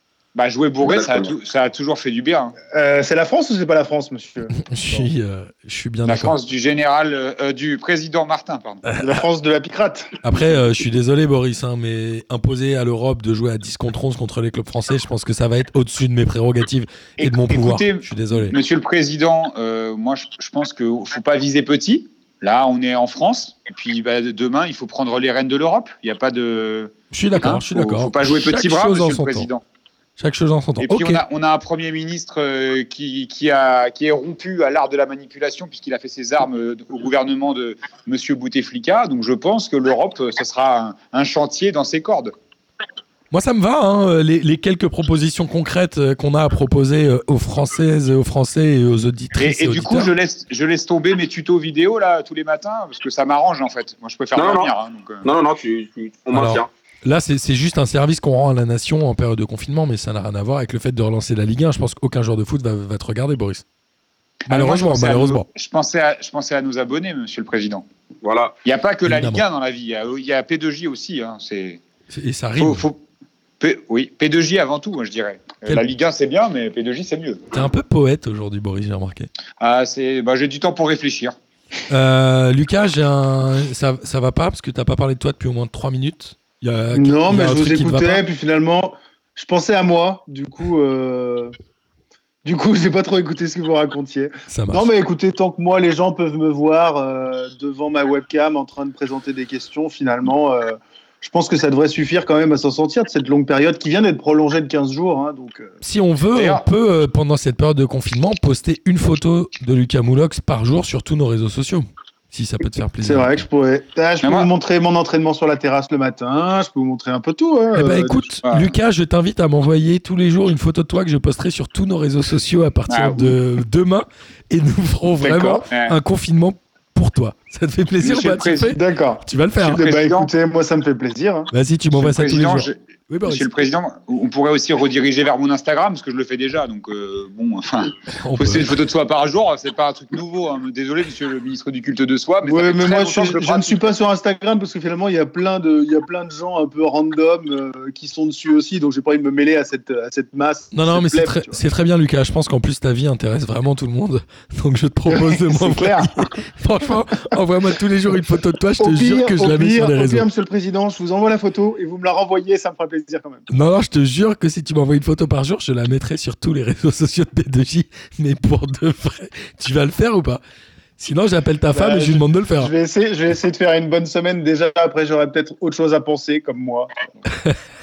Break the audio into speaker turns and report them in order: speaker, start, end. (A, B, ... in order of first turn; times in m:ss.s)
0:00.4-0:02.6 A
0:02.7-0:05.1 B
0:04.6-0:06.4 C
0:06.0-0:08.8 A
0:08.8-0:09.2 C
0:09.0-0:10.1 B
0:10.2-0:18.6 C
0:17.2-0:29.6 A
0:27.1-0:29.5 C
0:30.2-0:31.2 C
0:30.8-0:42.3 A
0:43.3-0:50.1 C
0:49.4-0:55.3 A
0:54.4-0:54.7 D
0:55.2-0:56.7 D
0:56.3-1:03.6 C
1:04.5-1:05.5 C
1:04.5-1:07.9 A
1:08.2-1:08.5 D
1:08.6-1:11.8 A
1:09.1-1:09.4 C
1:12.1-1:12.8 C
1:12.6-1:13.0 A
1:13.6-1:17.4 A
1:17.5-1:19.3 C
1:19.6-1:21.4 A
1:21.9-1:28.2 C
1:26.9-1:31.5 B
1:32.4-1:45.7 B
1:34.5-1:34.9 C
1:45.8-1:53.4 C
1:46.4-1:46.6 A
1:53.0-1:58.3 B
1:54.2-1:54.5 A
1:57.7-2:09.8 C
1:58.4-1:58.7 A
2:02.9-2:03.4 A
2:05.2-2:05.6 B
2:05.7-2:06.0 A
2:08.0-2:08.8 A
2:08.6-2:11.5 B
2:09.6-2:10.3 A
2:11.5-2:13.5 C
2:11.9-2:23.9 A
2:18.2-2:18.8 C
2:22.4-2:31.6 B
2:30.7-2:40.3 C
2:35.1-2:36.1 B
2:38.8-2:43.5 B
2:43.5-2:50.4 C
2:51.0-2:52.7 C
2:51.7-2:57.2 B
2:57.3-2:57.6 C